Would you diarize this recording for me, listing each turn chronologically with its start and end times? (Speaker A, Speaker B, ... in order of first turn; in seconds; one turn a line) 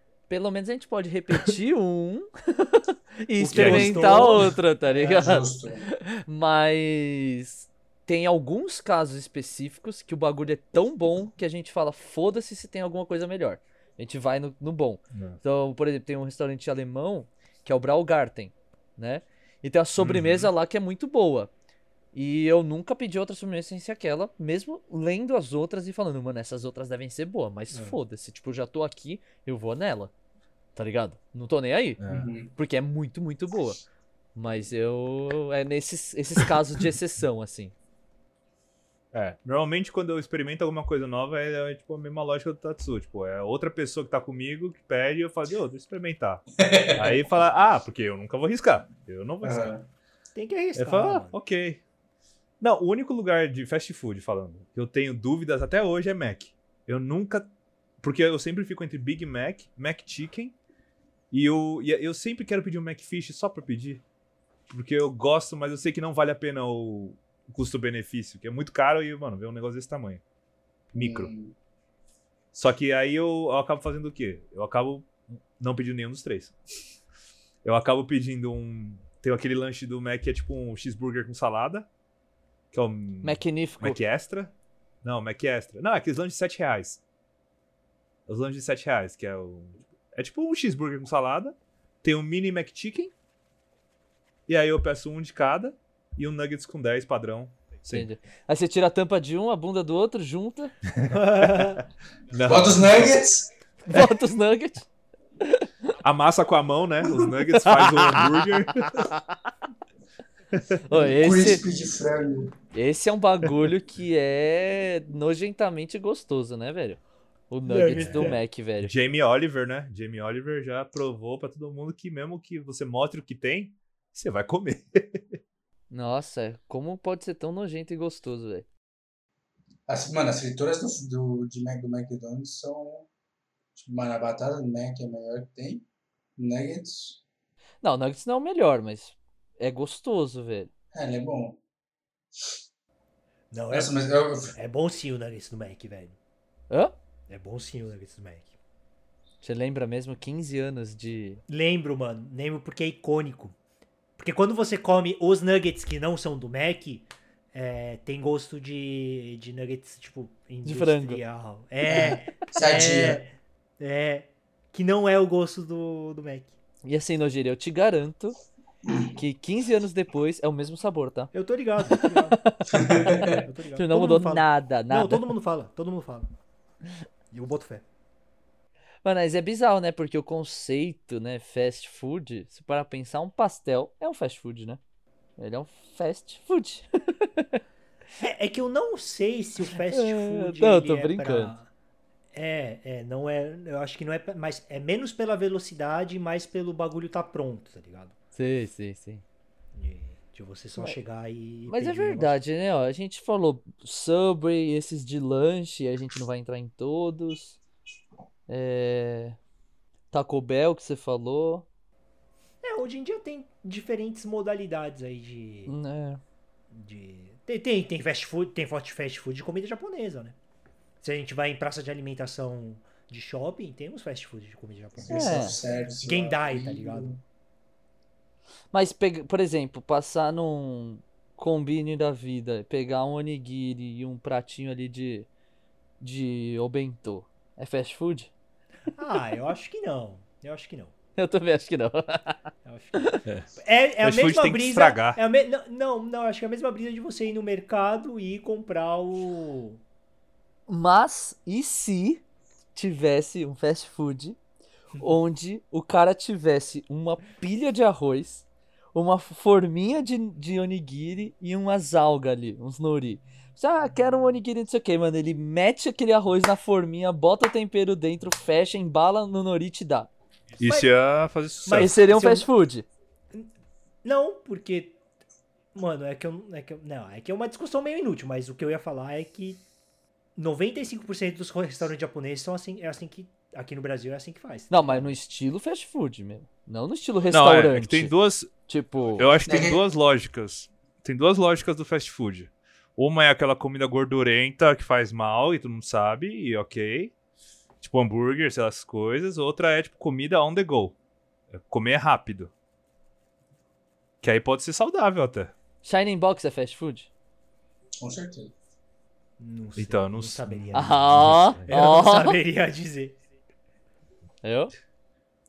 Speaker A: 0.3-21.5
Speaker B: 3.4-4.5
Speaker C: 3.5-4.5
Speaker D: 4.9-5.8
Speaker C: 15.1-15.4
Speaker C: 20.0-20.5
Speaker A: 22.1-30.1
Speaker A: 30.8-32.0
Speaker C: 32.0-32.3
Speaker D: 32.1-32.5
Speaker A: 32.6-33.8
Speaker A: 34.4-37.7
Speaker C: 39.1-49.7
Speaker D: 46.6-47.2
Speaker D: 49.4-49.8
Speaker B: 50.4-51.4
Speaker C: 50.8-51.8
Speaker C: 52.6-57.5
Speaker C: 58.0-60.5
Speaker C: 61.3-64.0
Speaker C: 64.7-70.2
Speaker D: 70.9-71.5
Speaker C: 71.0-71.3
Speaker C: 72.5-76.5
Speaker C: 77.6-81.9
Speaker C: 82.7-87.0
Speaker A: 83.2-84.0
Speaker C: 88.3-93.1
Speaker C: 94.5-98.1
Speaker A: 97.9-100.7
Speaker C: 100.9-103.2
Speaker B: 101.1-101.8
Speaker D: 102.5-103.5
Speaker A: 103.9-104.9
Speaker A: 105.4-105.7
Speaker C: 106.0-109.1
Speaker A: 107.7-109.2
Speaker A: 110.9-111.6
Speaker D: 110.9-112.5
Speaker A: 112.7-119.0
Speaker B: 117.7-118.4
Speaker C: 118.0-118.3
Speaker C: 118.8-125.4
Speaker A: 125.9-128.7
Speaker D: 129.9-133.1
Speaker D: 133.8-135.8
Speaker D: 136.4-137.2
Speaker A: 137.8-140.7
Speaker D: 140.9-141.6
Speaker B: 143.5-143.9
Speaker D: 143.7-144.5
Speaker B: 144.5-146.2
Speaker A: 146.7-146.9
Speaker B: 147.3-148.5
Speaker A: 149.4-151.4
Speaker B: 151.5-153.6
Speaker B: 154.2-166.5
Speaker A: 160.7-161.2
Speaker D: 161.8-163.2
Speaker A: 166.8-168.4
Speaker A: 169.1-171.3
Speaker B: 171.3-176.3
Speaker A: 171.9-173.2
Speaker D: 172.7-173.4
Speaker A: 173.8-175.3
Speaker B: 177.3-177.8
Speaker A: 179.0-184.8
Speaker A: 185.4-187.6
Speaker B: 188.2-191.7
Speaker A: 189.7-191.6
Speaker B: 192.3-198.1
Speaker A: 198.3-199.2
Speaker B: 199.8-202.4
Speaker A: 201.7-207.6
Speaker A: 208.5-209.4
Speaker A: 210.1-211.7
Speaker B: 212.6-215.7
Speaker A: 215.7-216.2
Speaker B: 216.7-220.4
Speaker B: 221.0-227.2
Speaker D: 225.0-227.2
Speaker A: 225.1-225.6
Speaker A: 228.7-235.3
Speaker A: 236.0-238.3
Speaker B: 238.9-240.9
Speaker A: 241.2-243.2
Speaker B: 242.7-249.8
Speaker C: 244.0-245.2
Speaker A: 250.7-252.2
Speaker A: 252.8-254.4
Speaker A: 255.0-270.1
Speaker C: 270.6-271.9
Speaker B: 270.6-270.9
Speaker B: 271.6-272.5
Speaker A: 271.7-272.9
Speaker B: 274.0-274.9
Speaker B: 275.7-279.6
Speaker B: 280.4-285.1
Speaker A: 284.7-288.1
Speaker C: 287.3-288.5
Speaker A: 288.7-289.3
Speaker C: 289.2-297.1
Speaker D: 289.5-289.8
Speaker C: 297.8-300.9
Speaker C: 301.5-302.5
Speaker C: 304.2-305.5
Speaker A: 305.8-307.1
Speaker D: 308.0-308.5
Speaker B: 309.4-313.2
Speaker C: 309.8-311.7
Speaker A: 310.7-312.4
Speaker A: 314.4-314.7